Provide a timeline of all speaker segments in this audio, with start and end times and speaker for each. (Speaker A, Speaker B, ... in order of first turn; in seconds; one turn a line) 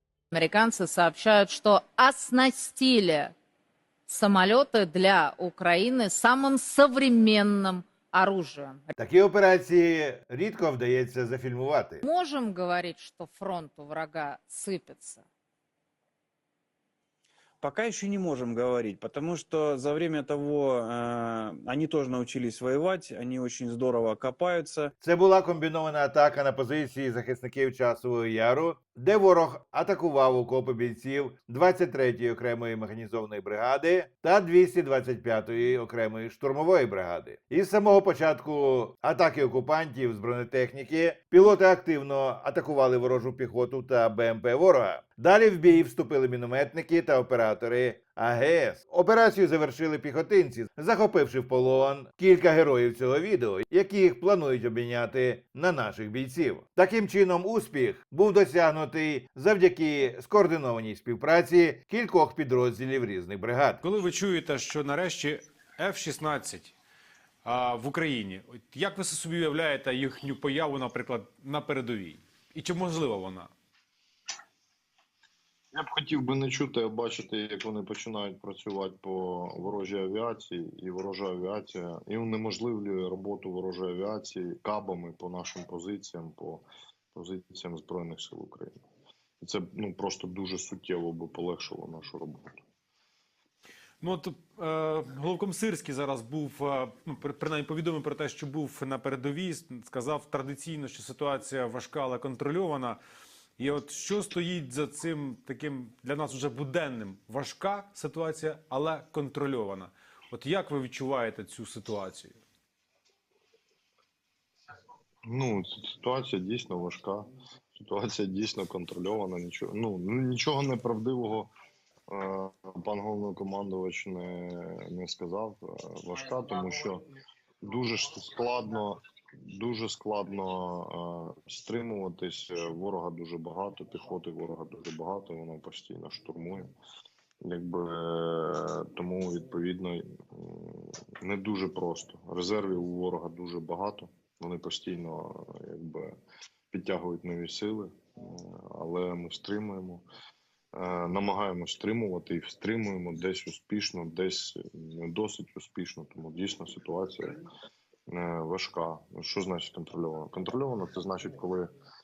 Speaker A: 0.3-3.4
Speaker A: 4.1-8.9
Speaker B: 9.0-12.0
Speaker A: 12.0-15.2
Speaker C: 17.6-24.9
Speaker B: 25.0-63.8
Speaker D: 63.8-66.7
Speaker D: 67.4-73.5
Speaker E: 75.7-88.8
Speaker E: 89.4-92.6
Speaker D: 94.0-103.0
Speaker D: 103.6-112.4
Speaker E: 115.2-121.5
Speaker E: 122.1-127.1
Speaker E: 127.6-136.7
Speaker E: 137.4-146.2
Speaker E: 146.7-150.0
Speaker E: 150.7-157.4
Speaker E: 158.1-161.7